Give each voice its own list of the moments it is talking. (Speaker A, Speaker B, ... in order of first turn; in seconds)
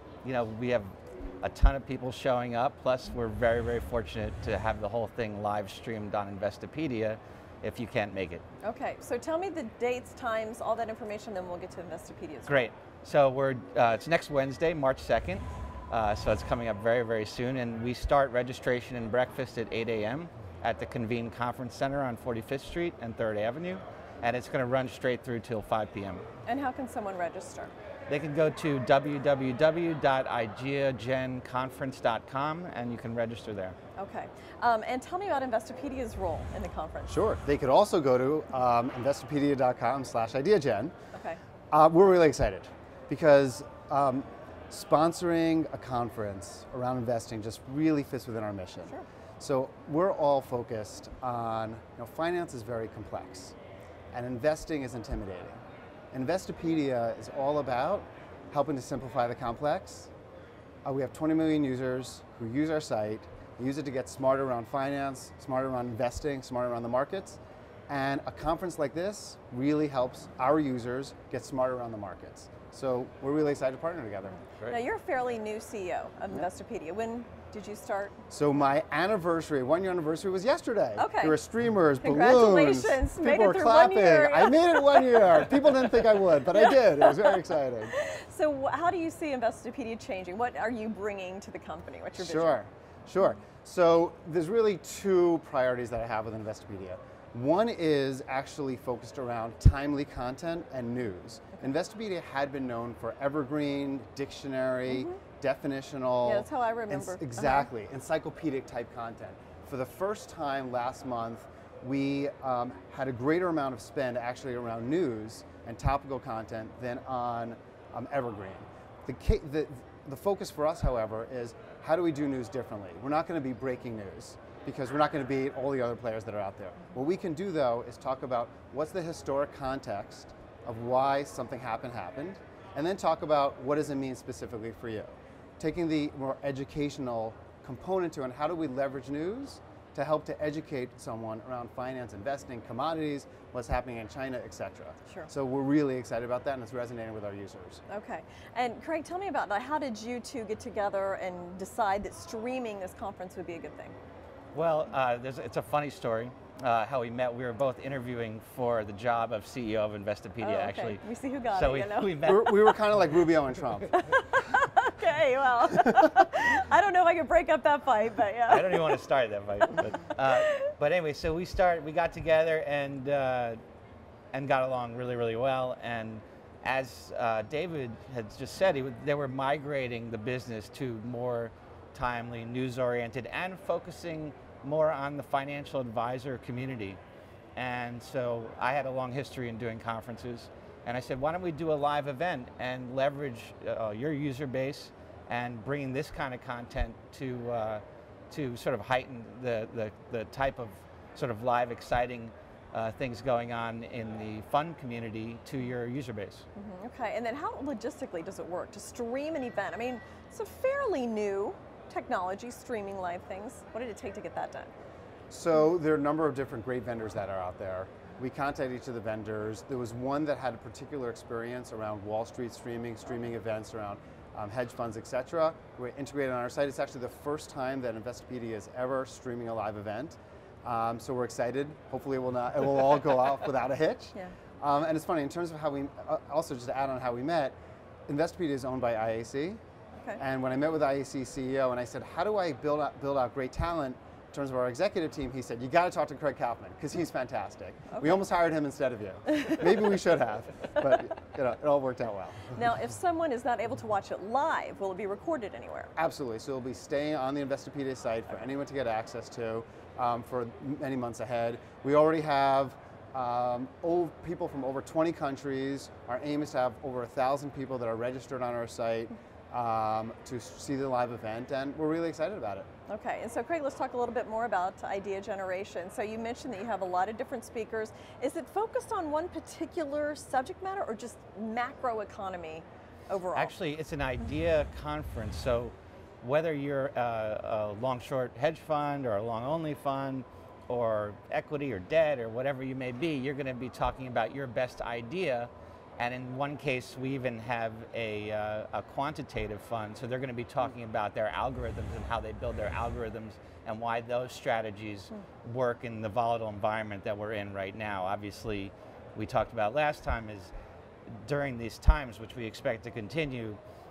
Speaker A: 0.2-8.4, 12.5-26.2, 28.1-33.8, 154.5-162.5, 168.5-173.6, 174.3-187.0, 187.6-206.5, 283.4-310.5, 311.1-313.6
Speaker B: 8.6-12.7, 26.4-27.7, 34.0-37.1, 41.1-41.4, 74.7-78.2, 81.0-81.4, 82.0-92.6, 104.8-105.2, 106.2-107.7, 147.9-153.9, 160.4-162.3, 163.9-169.0, 170.3-170.7, 206.5-214.7, 252.5-255.9, 272.9-283.6
Speaker C: 37.1-40.9, 41.7-53.6, 54.1-55.6, 56.1-60.1, 60.8-74.4, 78.3-87.9, 92.2-147.8, 162.2-164.0, 215.3-237.6, 238.1-239.6, 240.2-252.6, 256.0-272.7